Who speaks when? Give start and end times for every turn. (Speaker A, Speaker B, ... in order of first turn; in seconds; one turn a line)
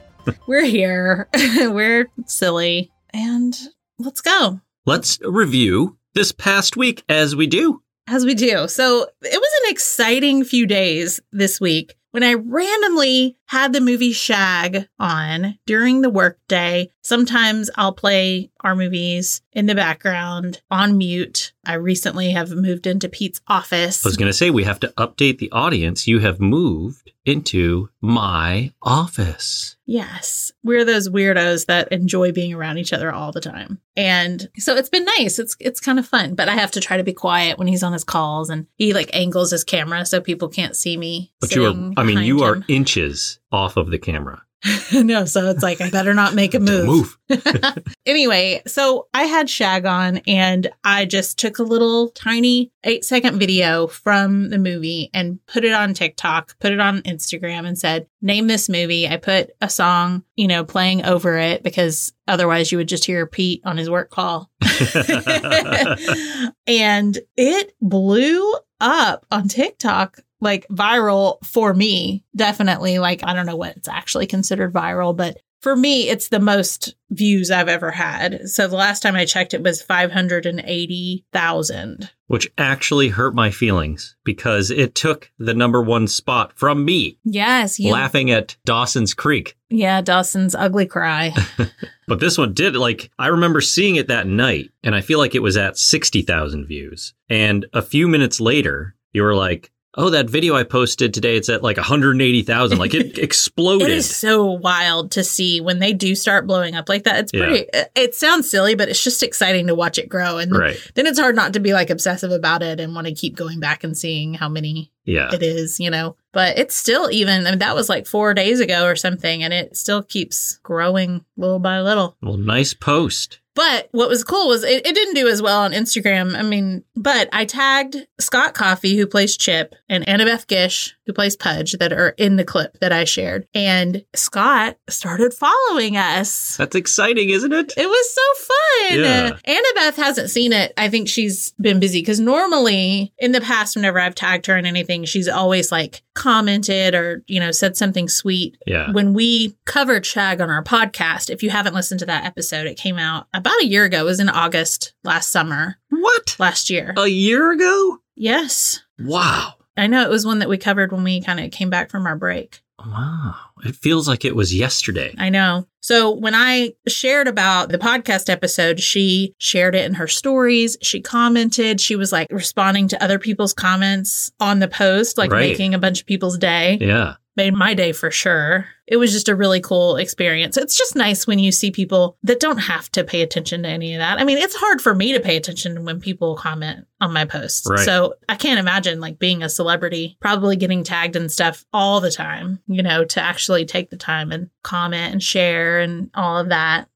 Speaker A: 0.5-4.6
Speaker B: 4.8-7.8
Speaker A: 8.1-24.2
Speaker B: 24.0-29.7
Speaker A: 29.9-42.7
Speaker B: 41.4-44.4
Speaker A: 44.6-82.1
Speaker B: 46.6-47.6
Speaker B: 64.7-66.1
Speaker B: 82.3-87.2
Speaker A: 87.2-88.1
Speaker B: 87.8-89.5
Speaker A: 89.7-91.6
Speaker B: 92.1-104.2
Speaker A: 103.8-122.1
Speaker B: 107.3-107.6
Speaker B: 110.5-110.8
Speaker B: 115.0-115.4
Speaker B: 122.2-123.4
Speaker A: 123.5-136.6
Speaker B: 136.6-137.8
Speaker A: 137.7-157.0
Speaker B: 138.9-139.4
Speaker B: 148.7-148.9
Speaker B: 155.9-156.4
Speaker B: 156.9-158.0
Speaker A: 158.2-158.8
Speaker B: 159.0-159.6
Speaker A: 159.7-162.6
Speaker B: 162.8-165.2
Speaker A: 165.2-196.9
Speaker B: 175.2-175.6
Speaker B: 176.8-177.2
Speaker B: 187.7-187.9